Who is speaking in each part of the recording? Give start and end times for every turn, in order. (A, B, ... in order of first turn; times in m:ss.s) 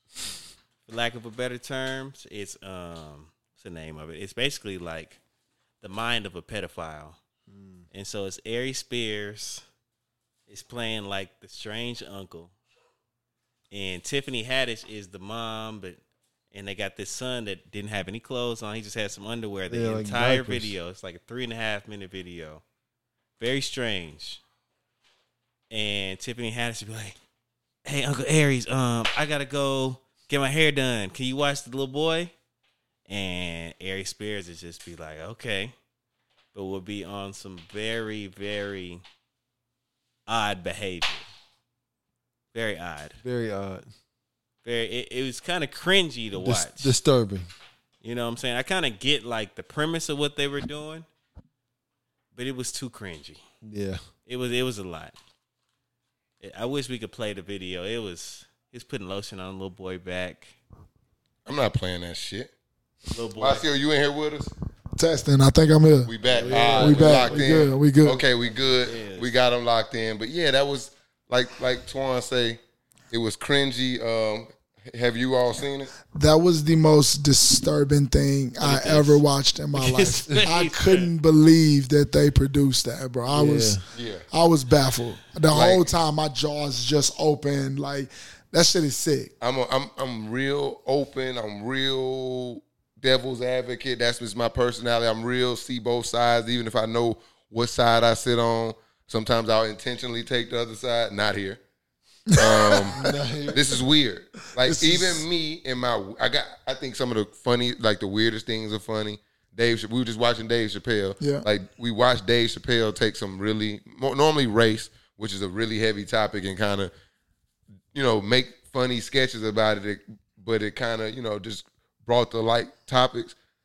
0:00.9-0:05.2 A
0:05.8-0:07.2 A
0:07.5-0:07.9 B
0:07.9-0:09.6 A
0:10.5-0:12.5 A
0:13.7-0:16.0 A
0:16.5-0:22.6 A
0:19.7-0:20.8 B
0:23.4-0:24.4 A
0:25.7-0:27.2 A
0:27.8-0:32.3 A
0:33.1-0:35.8 A
0:36.5-0:39.0 A
0:40.3-0:41.3 A
0:42.5-0:43.2 A
0:43.2-0:43.9 B
0:44.6-0:46.9 A
0:46.3-0:47.5 B
0:48.0-0:51.1 A
0:52.3-0:53.4 A
0:53.6-0:54.0 B
0:54.3-0:55.2 A
0:56.4-1:00.6 A
1:01.5-1:02.5 C
1:03.1-1:03.7 A
1:03.4-1:04.5 C
1:05.0-1:08.2 D
1:06.1-1:12.6 C
1:06.2-1:07.7 B
1:08.8-1:09.3 A
1:13.1-1:15.9 C
1:16.1-1:23.8 D
1:18.6-1:19.2 A
1:19.7-1:21.1 A
1:23.3-1:23.8 B
1:23.9-1:24.2 C
1:24.3-1:29.3 D
1:25.5-1:25.9 C
1:29.4-1:41.6 C
1:42.3-1:43.2 D
1:42.3-1:43.0 C
1:42.9-1:43.8 B
1:43.5-1:56.9 C
1:44.6-1:45.3 D
1:51.2-1:51.5 D
1:57.9-2:03.4 C